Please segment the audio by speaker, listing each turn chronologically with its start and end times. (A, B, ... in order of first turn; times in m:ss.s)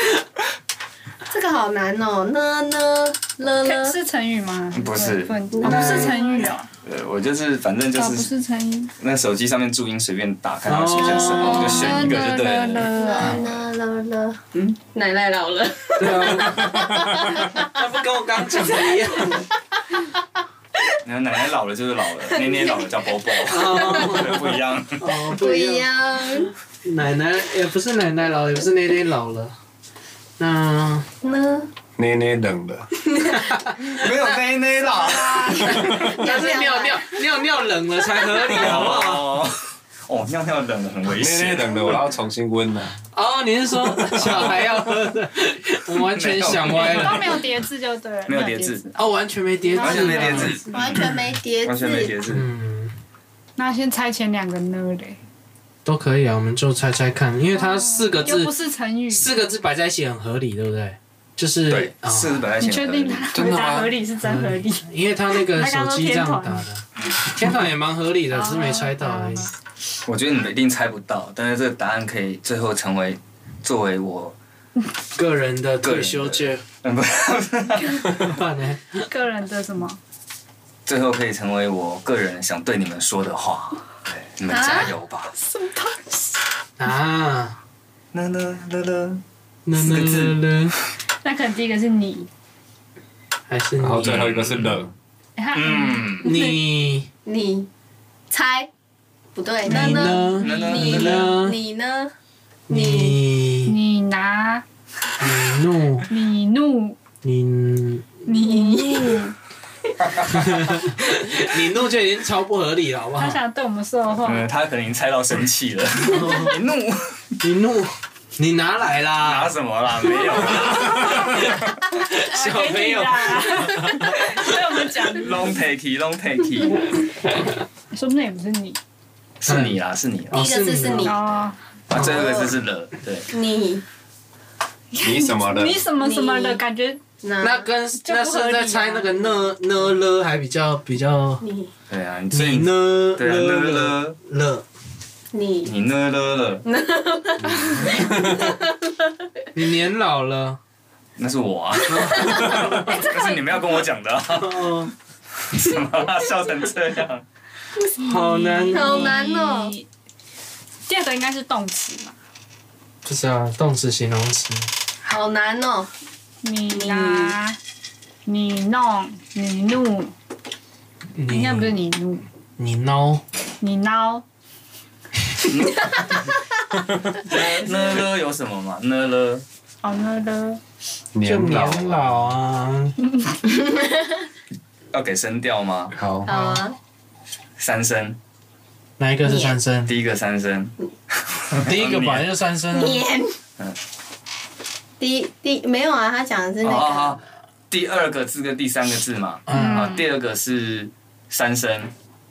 0:01.3-0:04.0 A
0:03.6-0:06.7 B
0:04.7-0:05.4 C
0:05.5-0:06.5 A
0:05.6-0:06.2 D
0:06.8-0:08.3 C
0:07.9-0:08.9 B
0:09.0-0:13.5 C
0:10.7-0:11.7 D
0:11.0-0:17.7 A
0:11.3-0:13.4 B
0:16.0-0:19.5 D
0:18.6-0:18.9 A
0:21.0-0:25.0 C
0:22.3-0:22.9 A
0:23.5-0:25.9 D
0:23.5-0:24.2 A
0:25.2-0:26.5 A
0:26.8-0:29.6 D
0:30.4-0:31.1 D
0:31.2-0:31.7 A
0:32.0-0:32.9 E
0:33.1-0:34.2 A
0:33.9-0:35.8 C
0:35.0-0:36.0 B
0:35.4-0:37.2 A
0:35.7-0:39.3 D
0:38.2-0:38.5 A
0:38.5-0:42.0 C
0:41.1-0:43.0 E
0:43.2-0:47.4 D
0:46.0-0:47.4 C
0:46.7-0:49.0 B
0:48.3-0:48.8 C
0:49.0-0:50.6 D
0:49.8-0:51.0 B
0:49.8-0:51.0 C
0:50.0-0:52.1 A
0:51.6-0:52.5 C
0:52.3-0:52.9 D
0:53.6-0:55.2 B
0:55.8-0:58.5 D
0:57.5-0:59.3 B
0:59.1-1:02.5 D
1:01.7-1:03.3 C
1:02.6-1:06.7 B
1:03.3-1:04.0 E
1:04.2-1:09.5 D
1:08.3-1:09.5 B
1:10.1-1:14.4 C
1:15.2-1:16.6 D
1:15.8-1:18.2 C
1:18.1-1:19.1 D
1:19.0-1:20.0 B
1:20.9-1:25.3 C
1:24.5-1:24.9 A
1:25.3-1:26.4 B
1:26.8-1:27.6 D
1:28.1-1:29.2 C
1:29.7-1:30.8 D
1:29.8-1:30.4 C
1:31.2-1:32.3 B
1:33.5-1:34.3 D
1:33.8-1:34.9 E
1:34.0-1:34.8 C
1:35.4-1:36.5 B
1:35.5-1:36.3 C
1:36.2-1:37.1 D
1:37.3-1:37.7 A
1:38.3-1:38.7 A
1:39.4-1:42.1 A
1:39.7-1:41.6 D
1:40.4-1:41.3 C
1:42.7-1:43.2 A
1:42.7-1:43.8 D
1:43.7-1:44.6 B
1:45.2-1:46.1 D
1:46.1-1:47.0 B
1:47.2-1:48.1 D
1:48.3-1:49.4 B
1:48.4-1:49.3 A
1:50.3-1:53.4 D
1:53.2-1:54.5 B
1:54.2-1:57.3 C
1:56.1-1:56.6 D
1:57.4-1:59.6 D
1:59.2-2:01.6 C
2:00.5-2:04.5 D
2:00.8-2:01.4 B
2:02.2-2:05.6 B
2:05.2-2:06.9 C
2:07.9-2:08.8 B
2:09.4-2:10.5 C
2:09.5-2:09.8 D
2:10.3-2:11.2 D
2:10.3-2:11.3 A
2:10.9-2:11.6 B
2:11.9-2:13.3 C
2:11.9-2:12.5 A
2:13.3-2:13.8 A
2:14.9-2:17.0 B
2:15.0-2:15.9 E
2:16.0-2:16.6 A
2:17.2-2:17.7 A
2:17.4-2:21.4 D
2:18.0-2:19.2 B
2:21.4-2:21.7 A
2:21.9-2:24.2 C
2:22.3-2:24.6 D
2:25.3-2:25.8 A
2:25.6-2:26.6 C
2:26.6-2:28.9 A
2:27.8-2:28.4 E
2:29.5-2:30.6 D
2:31.2-2:34.8 C
2:31.9-2:32.9 D
2:32.0-2:32.8 A
2:34.3-2:34.9 D
2:35.5-2:37.2 C
2:38.0-2:39.2 D
2:38.0-2:39.9 B
2:38.7-2:39.8 A
2:40.9-2:42.2 B
2:43.0-2:44.7 D
2:45.0-2:45.9 A
2:46.4-2:47.6 B
2:46.7-2:47.4 A
2:48.3-2:50.1 B
2:51.2-2:51.8 D
2:51.3-2:52.2 B
2:52.6-2:53.2 D
2:53.6-2:54.2 B
2:55.5-2:56.2 C
2:55.9-2:56.2 A
2:57.3-2:59.4 C
2:59.8-3:00.6 B
3:01.2-3:02.4 E
3:01.2-3:03.0 D
3:03.4-3:04.2 A
3:04.9-3:06.0 C
3:05.9-3:06.3 E
3:06.2-3:06.8 A
3:06.3-3:06.6 D
3:07.6-3:08.2 C
3:09.0-3:09.9 D
3:09.2-3:09.6 A
3:09.9-3:12.3 C
3:11.5-3:13.1 D
3:12.7-3:13.4 A
3:15.0-3:17.2 A
3:16.6-3:21.9 C
3:19.5-3:20.0 D
3:19.5-3:20.1 B